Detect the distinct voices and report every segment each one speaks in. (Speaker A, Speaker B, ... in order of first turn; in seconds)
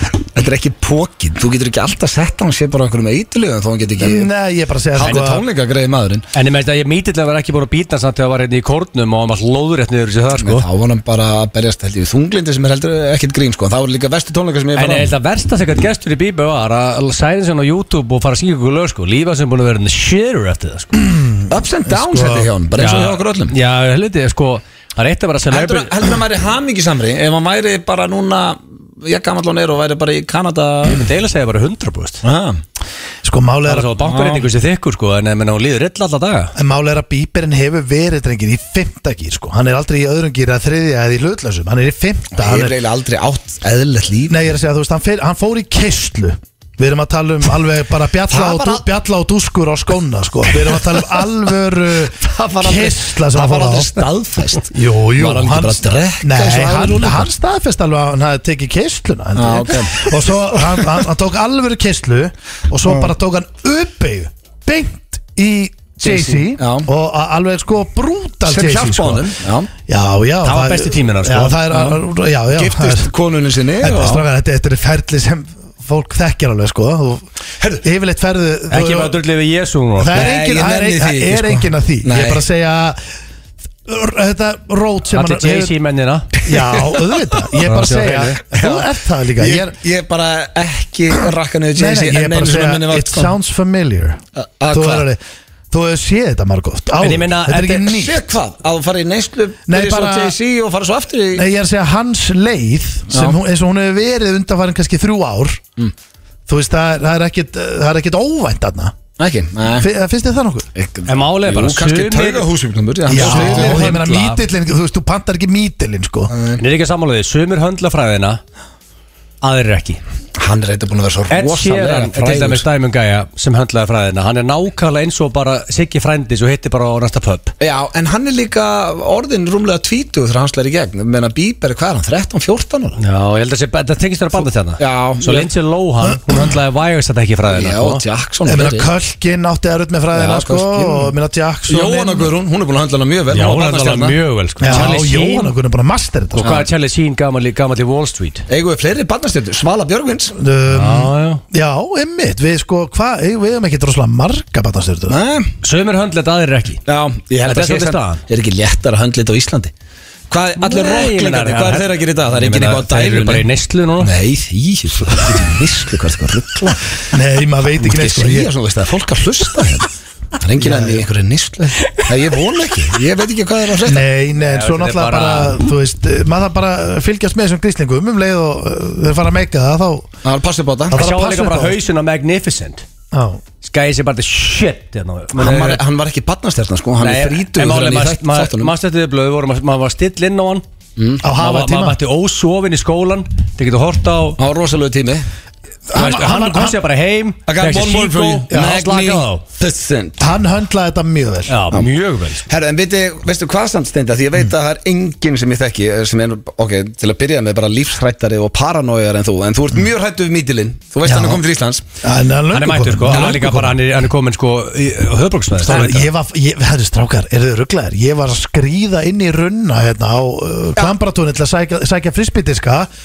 Speaker A: 0.3-4.3, 5.0-6.2, 10.4-15.1, 21.5-23.5, 25.5-31.1, 32.2-32.6, 34.1-34.5, 42.4-44.4, 48.3-48.8, 50.7-50.9, 52.2-57.3, 59.4-60.9, 66.0-66.9, 68.5-69.7, 72.5-74.2, 80.2-82.4, 88.5-93.3, 94.4-95.1, 97.9-101.5, 103.1-103.4, 109.2-109.9, 110.8-113.9, 116.3-116.6, 120.4-122.7, 127.6-133.0, 134.8-135.5, 137.5-138.9, 140.1-141.1, 141.7-145.0, 146.4-146.7, 148.5-150.3, 155.1-155.5, 156.9-159.7, 160.3-163.4, 164.0-166.8, 167.8-174.1, 180.2-181.0, 185.4-188.7, 191.0-191.2, 194.4-195.3, 197.5-200.3, 202.5-211.8, 213.1-213.4
Speaker B: 4.0-5.4, 21.0-22.5, 33.2-34.0, 36.6-42.8, 44.3-54.0, 54.7-69.3, 69.8-73.1, 73.8-77.2, 77.8-79.2, 80.0-83.0, 83.8-85.7, 86.5-89.8, 91.8-94.2, 94.7-95.2, 95.7-98.3, 99.7-100.4, 101.3-105.6, 106.5-109.0, 109.7-110.7, 113.1-116.3, 138.5-142.3, 144.6-146.6, 150.3-155.2, 167.1-168.5, 170.6-171.0, 173.8-180.1, 180.9-181.8, 183.1-183.4, 191.2-192.0, 195.9-196.8, 198.5-198.8, 200.2-201.5, 211.1-211.4, 212.0-213.8, 215.6-222.9
Speaker C: 5.0-5.3, 6.3-10.7, 14.8-21.0, 22.8-25.9, 30.9-32.2, 33.7-36.5, 70.4-71.9, 78.7-80.3, 85.1-86.3, 87.6-88.4, 97.0-97.9, 111.1-112.4, 113.1-114.4, 116.6-118.4, 119.4-120.0, 121.3-127.5, 133.0-138.0, 143.3-145.5, 146.3-148.4, 150.7-151.4, 155.6-156.8, 157.4-158.2, 160.6-164.1, 174.4-175.6, 180.9-182.8, 183.6-185.8, 187.0-190.6, 191.3-194.4, 195.9-199.4, 201.5-202.4, 212.5-216.1